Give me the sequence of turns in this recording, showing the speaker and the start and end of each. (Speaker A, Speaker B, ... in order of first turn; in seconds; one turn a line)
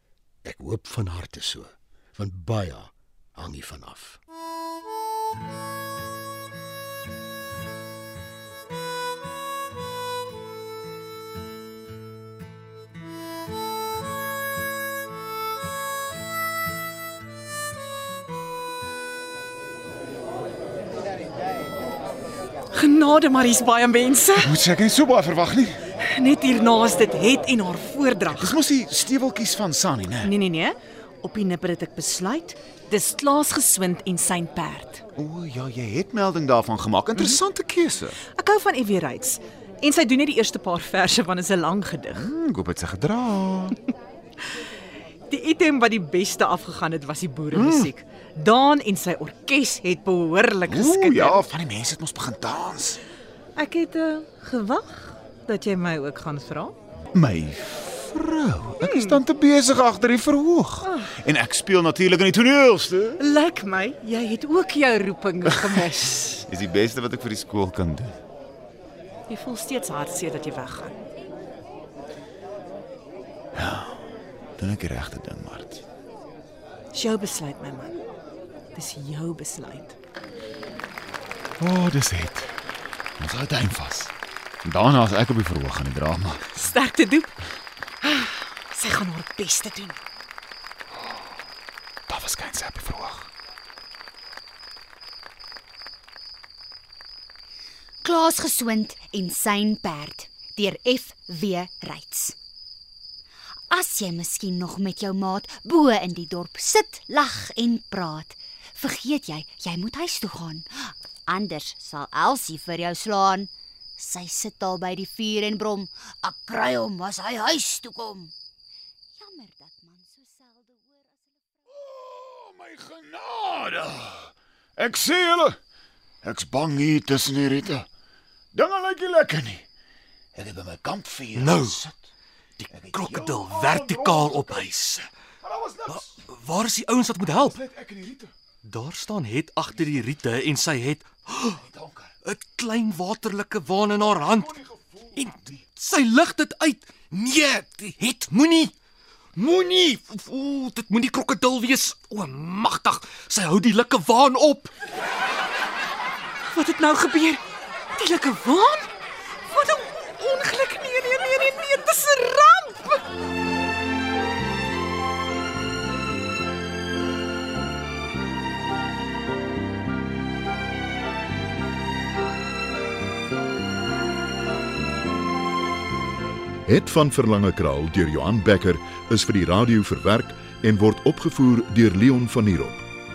Speaker A: 0.5-4.2
Speaker B: 22.7-24.5
Speaker C: 24.4-25.8
Speaker B: 26.0-28.6
Speaker C: 28.3-30.3
Speaker B: 30.2-35.0
Speaker C: 35.2-38.2
Speaker B: 38.3-42.3
Speaker C: 42.1-43.8
Speaker B: 45.3-51.4
Speaker C: 47.5-47.9
Speaker C: 50.7-53.0
Speaker B: 53.6-56.8
Speaker C: 57.1-63.2
Speaker B: 58.8-59.2
Speaker B: 60.8-61.1
Speaker B: 63.2-66.5
Speaker C: 66.5-68.2
Speaker B: 69.3-71.0
Speaker C: 73.5-74.1
Speaker C: 74.6-75.8
Speaker B: 76.9-78.0
Speaker B: 78.8-80.0
Speaker C: 81.6-82.5
Speaker C: 83.2-84.1
Speaker C: 84.6-86.5
Speaker B: 86.5-87.4
Speaker B: 88.0-90.0
Speaker C: 92.1-93.3
Speaker D: 98.0-102.4
Speaker D: 103.7-118.3
Speaker D: 119.2-121.1
Speaker C: 121.7-125.6
Speaker C: 126.2-127.9
Speaker C: 128.5-129.7
Speaker C: 130.3-132.0
Speaker E: 131.4-131.8
Speaker E: 132.6-135.1
Speaker C: 132.7-134.7
Speaker C: 135.4-136.1
Speaker E: 135.9-137.6
Speaker C: 137.3-138.3
Speaker E: 138.6-141.6
Speaker C: 141.5-142.1
Speaker E: 142.2-148.7
Speaker C: 144.3-145.5
Speaker E: 149.4-154.7
Speaker B: 156.5-157.4
Speaker B: 158.0-158.9
Speaker B: 159.5-163.0
Speaker F: 176.7-182.9